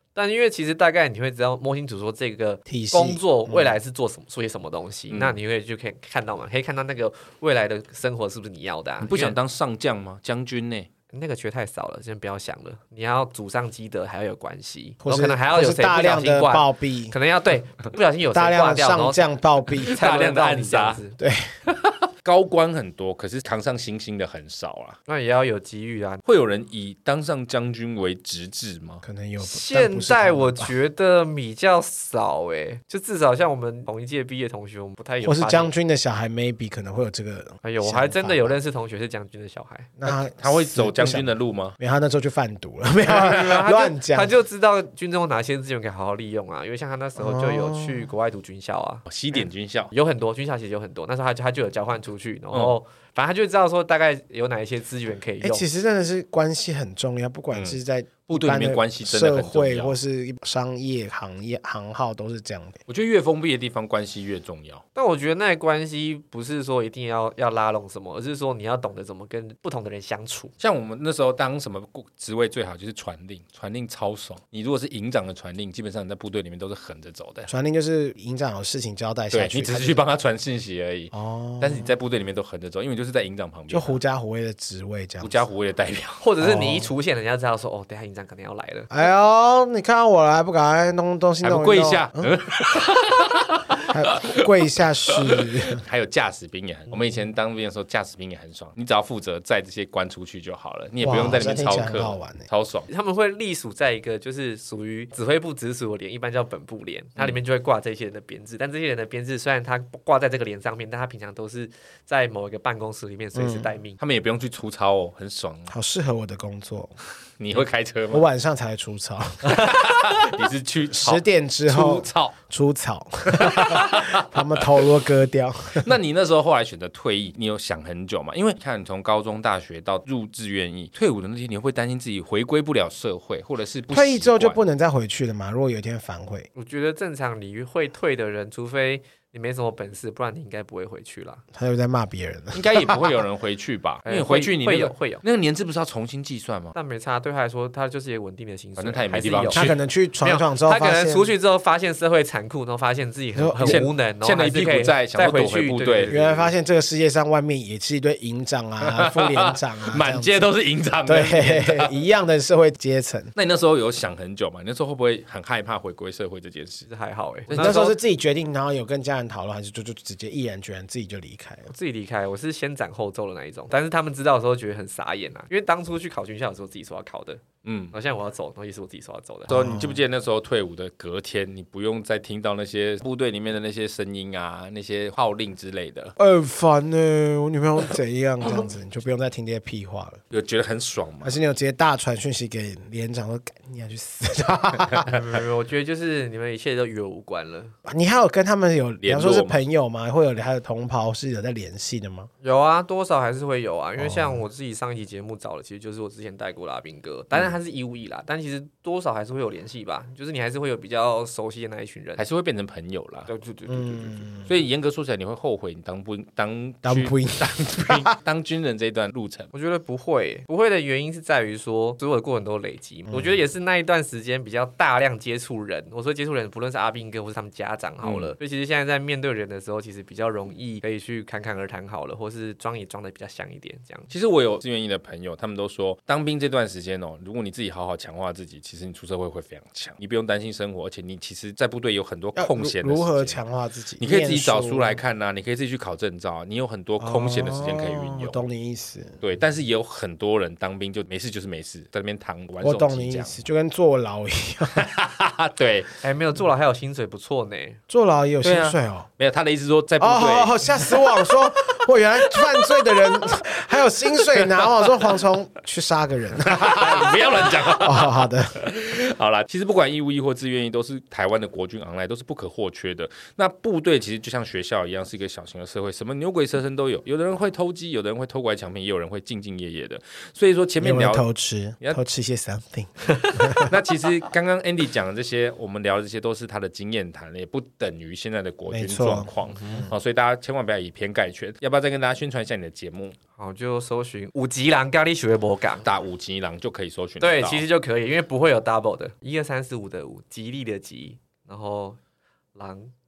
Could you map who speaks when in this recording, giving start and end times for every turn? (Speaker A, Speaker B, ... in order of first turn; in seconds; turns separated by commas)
Speaker A: 0.1-9.4, Speaker B: 2.7-3.8, Speaker C: 5.1-5.4, Speaker C: 9.0-10.9, Speaker A: 11.1-19.2, Speaker B: 15.0-17.1, Speaker B: 18.3-19.9, Speaker C: 19.8-21.0, Speaker A: 19.9-21.2, Speaker B: 21.2-21.5, Speaker C: 21.7-25.0, Speaker A: 25.1-26.2, Speaker C: 26.2-29.0, Speaker B: 29.0-30.7, Speaker A: 29.4-35.7, Speaker B: 35.2-38.6, Speaker A: 37.6-39.9, Speaker B: 40.0-44.3, Speaker C: 40.1-41.8, Speaker A: 43.0-55.7, Speaker B: 47.2-48.1, Speaker C: 49.1-49.9, Speaker B: 55.4-62.8, Speaker C: 57.5-60.0, Speaker C: 62.9-64.8, Speaker A: 65.0-70.5, Speaker C: 70.6-77.5, Speaker B: 77.5-80.0, Speaker C: 79.3-84.0, Speaker B: 81.1-81.9, Speaker B: 83.7-85.4, Speaker C: 85.2-86.2, Speaker A: 86.2-88.9, Speaker B: 86.4-86.9, Speaker B: 88.9-92.3, Speaker C: 91.4-94.5, Speaker B: 93.9-95.8, Speaker C: 95.1-102.9, Speaker B: 101.0-102.5, Speaker A: 102.9-114.0, Speaker B: 113.3-113.7, Speaker C: 114.0-115.7, Speaker B: 115.7-116.9, Speaker C: 117.4-118.2, Speaker B: 118.1-119.8, Speaker C: 119.4-122.3, Speaker B: 120.9-125.9, Speaker C: 123.3-124.8, Speaker C: 125.8-134.6, Speaker B: 133.9-136.5, Speaker A: 136.6-141.4, Speaker B: 141.5-143.1, Speaker C: 142.5-146.7, Speaker A: 144.1-145.2, Speaker A: 146.7-149.7, Speaker C: 148.8-149.8, Speaker B: 149.5-151.3, Speaker A: 150.2-156.2, Speaker B: 153.4-153.9, Speaker C: 153.6-156.5, Speaker B: 156.1-160.5, Speaker C: 158.8-161.9, Speaker B: 161.1-163.3, Speaker C: 163.4-166.9, Speaker A: 166.9-167.9, Speaker C: 167.5-167.8, Speaker B: 167.5-171.7, Speaker A: 171.7-177.4, Speaker C: 177.6-177.9, Speaker A: 177.9-179.6, Speaker B: 179.5-180.0, Speaker C: 179.5-186.1, Speaker B: 186.2-190.2, Speaker C: 190.3-191.4, Speaker B: 191.2-195.1, Speaker A: 195.1-197.8, Speaker B: 197.9-202.3, Speaker C: 199.0-199.5, Speaker A: 202.4-212.2, Speaker B: 204.0-204.4, Speaker C: 212.2-213.3, Speaker A: 213.3-214.3, Speaker B: 213.7-214.5, Speaker C: 214.5-219.5, Speaker B: 216.8-218.1, Speaker A: 219.5-234.1, Speaker C: 228.0-228.3, Speaker C: 234.1-243.4, Speaker B: 242.4-245.0, Speaker C: 244.0-248.4, Speaker B: 247.0-249.2, Speaker C: 249.2-253.3, Speaker B: 252.6-254.9, Speaker C: 254.7-255.9, Speaker A: 256.0-257.8, Speaker B: 257.9-259.1, Speaker C: 258.4-261.3, Speaker B: 260.0-268.6, Speaker C: 262.2-263.0, Speaker C: 264.3-265.1, Speaker C: 266.4-281.2, Speaker B: 280.8-283.7, Speaker C: 283.5-293.2, Speaker B: 288.7-289.3, Speaker A: 293.4-295.9, Speaker C: 295.8-297.6, Speaker A: 297.2-302.0, Speaker A: 302.6-302.9